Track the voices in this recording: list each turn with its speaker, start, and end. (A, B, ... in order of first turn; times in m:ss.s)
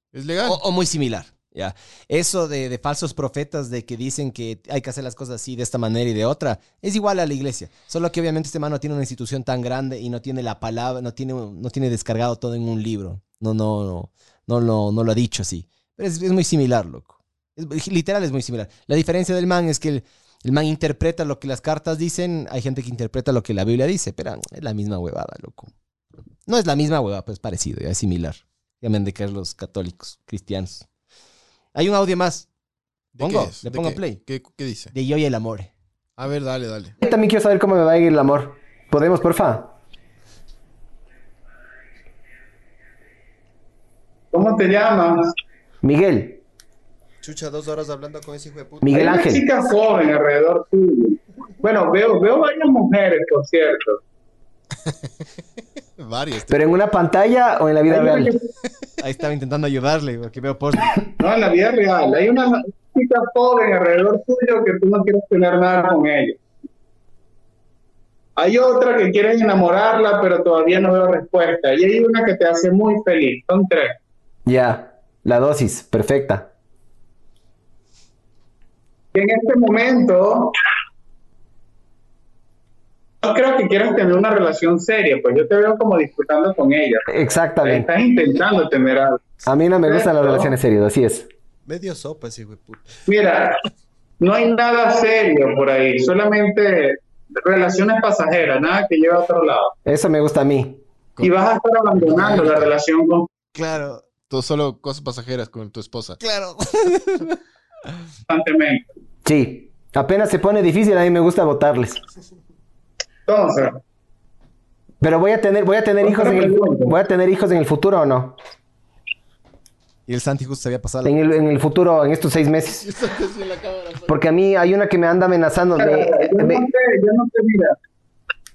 0:00.1-0:00.6 A
0:00.4-0:25.7 B
0:26.4-0:30.9 B
0:31.7-0:32.5 B
0:33.1-0:34.9 A
0:33.2-0:34.2 B
0:34.9-0:35.7 B
0:36.2-0:36.9 A
0:37.0-0:39.7 C
0:44.3-0:45.3 D
0:45.8-0:46.4 C
0:47.2-0:49.0 E
0:48.8-0:49.4 C
0:48.9-0:54.0 D
0:54.8-0:55.1 A
0:56.0-0:56.5 A
0:56.5-0:58.4 C
0:57.9-0:58.3 D
0:59.0-1:01.0 B
1:01.2-1:06.4 D
1:08.4-1:14.0 D
1:14.4-1:16.5 C
1:19.1-1:20.5 D
1:23.2-1:27.1 D
1:27.1-1:27.9 C
1:27.6-1:29.2 D
1:29.4-1:31.3 C
1:29.8-1:30.5 D
1:31.7-1:32.9 E
1:33.1-1:33.6 D
1:34.2-1:39.7 D
1:39.9-1:40.8 C
1:41.2-1:43.3 D
1:42.0-1:42.7 A
1:43.6-1:44.0 B
1:44.3-1:46.2 A
1:46.2-1:47.3 B
1:48.3-1:48.9 D
1:49.2-1:52.0 C
1:53.3-1:53.8 D
1:55.0-1:58.4 C
1:56.0-1:57.0 D
2:00.1-2:01.1 B
2:01.0-2:02.8 C
2:02.7-2:04.2 A
2:04.0-2:06.6 C
2:05.8-2:07.8 D